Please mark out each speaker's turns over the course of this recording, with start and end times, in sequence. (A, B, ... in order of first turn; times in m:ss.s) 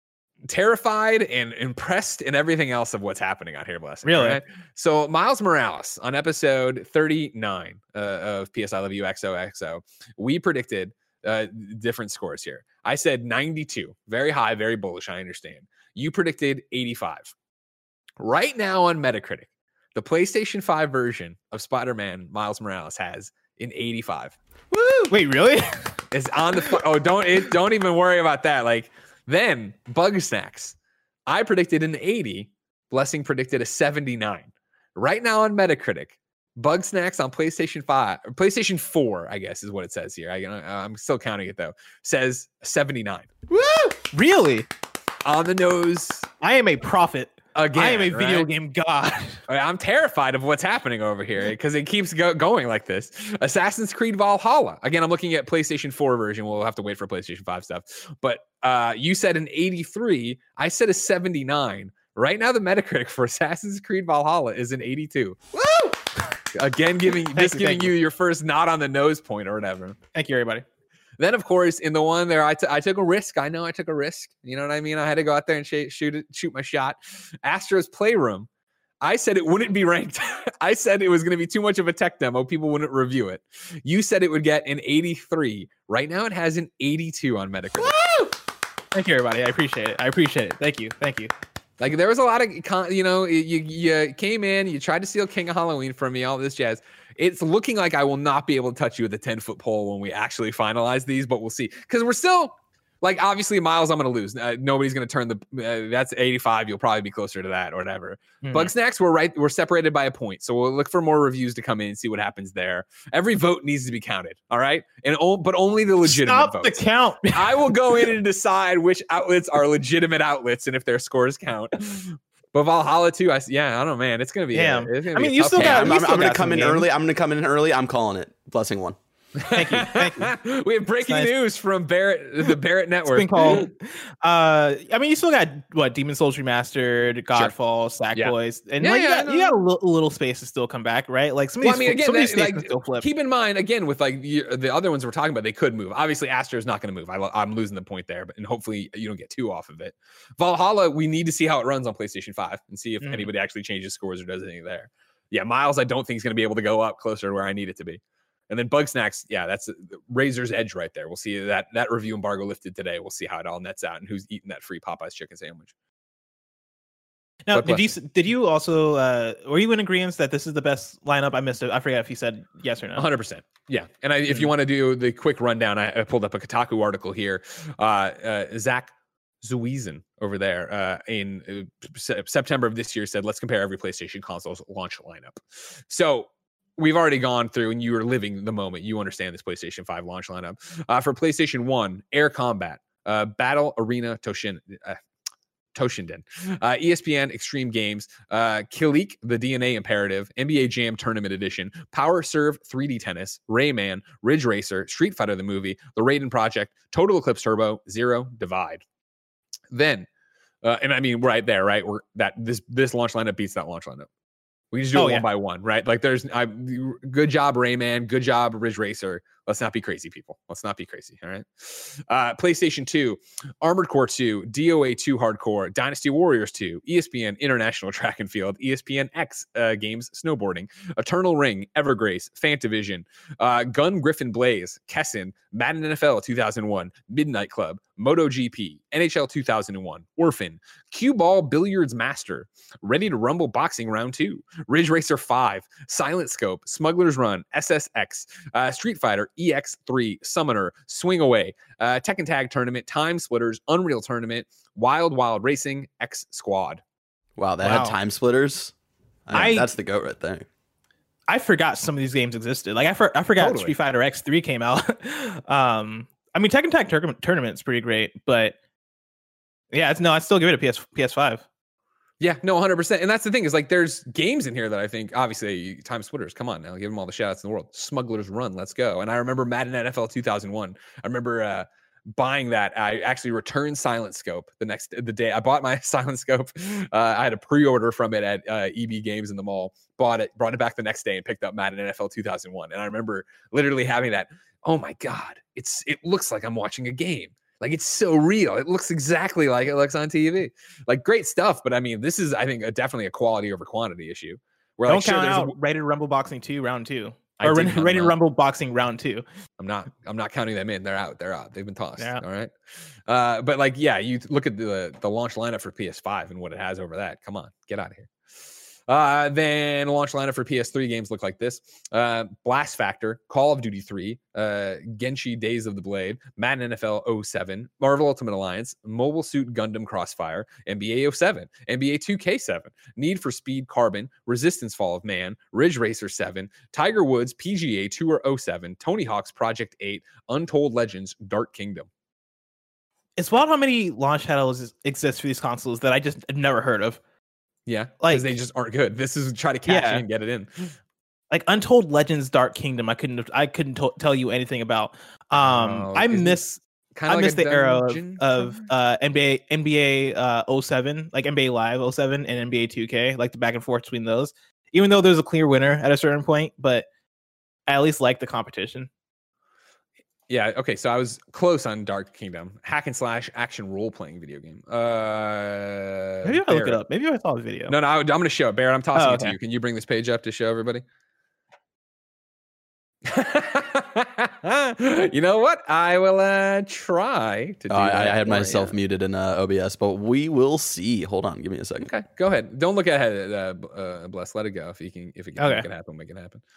0:00.5-0:17.3 A
0:04.0-0:04.4 B
0:18.2-0:25.1 A
0:25.1-0:26.0 B
0:26.1-0:30.7 A
0:31.3-0:43.3 A
0:43.5-0:44.7 B
0:45.2-0:46.3 A
0:46.4-0:49.4 B
0:47.5-0:48.5 A
0:49.5-1:05.4 A
1:05.6-1:06.0 B
1:06.5-1:10.0 A
1:07.3-1:07.9 B
1:10.1-1:10.6 B
1:11.2-1:18.5 A
1:19.0-1:27.9 A
1:27.9-1:28.3 B
1:28.9-1:31.3 B
1:31.8-2:06.0 A
1:48.4-1:48.7 B
1:56.0-1:58.1 B
2:04.5-2:06.8 B
2:05.6-2:09.0 C
2:09.4-2:13.7 A
2:09.5-2:10.3 B
2:11.0-2:11.3 B
2:13.0-2:23.0 B
2:18.1-2:19.6 A
2:21.6-2:45.7 A
2:33.0-2:33.3 B
2:47.5-2:53.0 B
2:47.5-2:47.9 A
2:53.0-3:15.0 A
3:15.7-3:28.8 A
3:29.7-3:30.1 A
3:30.6-3:34.1 A
3:34.7-4:16.8 A
3:34.9-3:35.2 B
4:17.4-4:18.7 C
4:17.6-4:18.0 B
4:19.3-4:20.4 C
4:19.3-4:19.7 B
4:21.3-4:28.5 B
4:23.4-4:23.7 A
4:29.7-4:31.4 B
4:32.2-5:05.5 A
5:04.9-5:09.2 B
5:07.4-5:08.2 A
5:09.6-5:12.5 A
5:13.1-5:18.1 A
5:18.9-5:41.9 A
5:43.2-5:47.0 B
5:47.7-5:50.7 A
5:48.0-5:48.3 B
5:49.6-5:50.0 B
5:51.3-5:56.5 B
5:55.4-5:58.7 A
5:57.1-6:06.8 B
6:07.7-6:08.9 B
6:10.3-6:16.8 A
6:16.2-6:17.7 B
6:17.7-6:20.8 A
6:18.9-6:19.4 B
6:23.0-6:28.6 A
6:27.7-6:31.9 C
6:31.8-6:36.4 A
6:35.4-6:35.6 B